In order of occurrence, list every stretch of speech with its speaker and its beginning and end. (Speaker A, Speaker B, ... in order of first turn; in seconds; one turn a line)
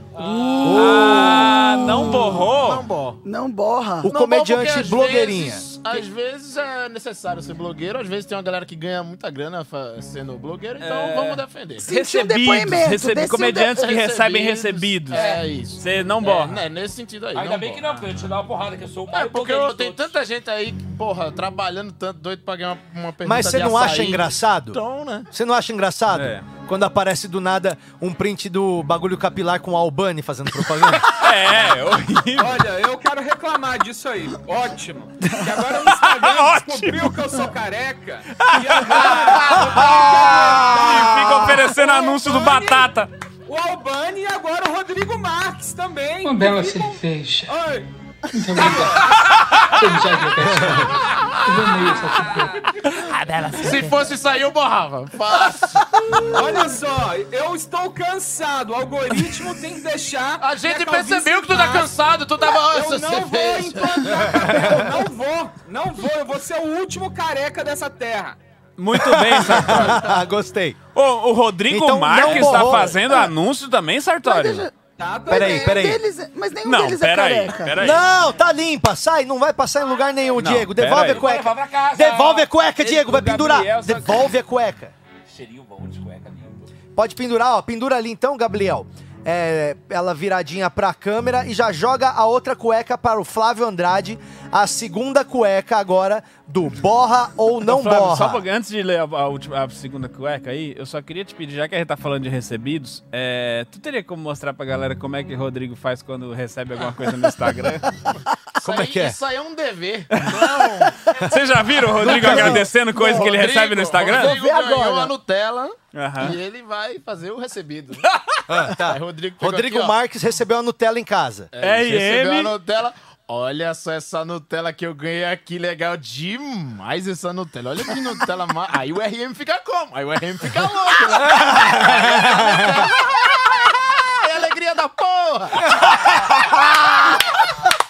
Speaker A: 0.1-1.0
Speaker B: 0.2-2.9
Speaker C: 0.6-2.2
Speaker D: 1.9-3.2
Speaker E: 3.2-4.1
Speaker C: 4.0-5.7
Speaker D: 4.1-11.9
Speaker B: 10.8-16.6
Speaker E: 11.8-13.9
Speaker D: 13.8-17.8
Speaker A: 15.1-15.5
Speaker A: 17.3-20.2
Speaker D: 19.1-25.3
Speaker C: 23.2-31.1
Speaker B: 26.1-26.4
Speaker B: 31.0-32.6
Speaker F: 32.4-42.9
Speaker B: 35.2-37.5
Speaker B: 38.4-43.1
Speaker F: 43.5-47.9
Speaker G: 46.2-47.5
Speaker G: 48.3-49.1
Speaker F: 48.5-49.5
Speaker B: 49.3-49.6
Speaker G: 49.7-52.6
Speaker C: 50.4-50.9
Speaker F: 51.8-53.0
Speaker A: 52.9-54.1
Speaker D: 53.5-56.3
Speaker F: 56.3-61.9
Speaker D: 60.4-64.4
Speaker F: 62.5-68.4
Speaker C: 64.3-64.9
Speaker B: 68.8-70.1
Speaker C: 68.9-70.8
Speaker B: 70.9-74.7
Speaker C: 71.7-73.0
Speaker E: 74.2-74.7
Speaker F: 75.0-75.9
Speaker E: 75.3-77.8
Speaker C: 75.3-76.0
Speaker B: 76.6-78.0
Speaker C: 77.8-84.9
Speaker B: 80.4-81.3
Speaker A: 81.0-82.5
Speaker B: 82.8-84.3
Speaker A: 85.3-86.7
Speaker C: 87.0-98.4
Speaker B: 97.6-107.9
Speaker D: 108.6-111.0
Speaker C: 108.6-109.2
Speaker B: 110.1-114.4
Speaker C: 112.0-112.7
Speaker D: 112.0-118.1
Speaker E: 112.9-113.3
Speaker E: 114.1-115.2
Speaker B: 115.9-116.4
Speaker C: 118.5-121.5
Speaker D: 118.7-120.0
Speaker D: 121.5-135.9
Speaker B: 121.6-122.5
Speaker C: 131.3-132.9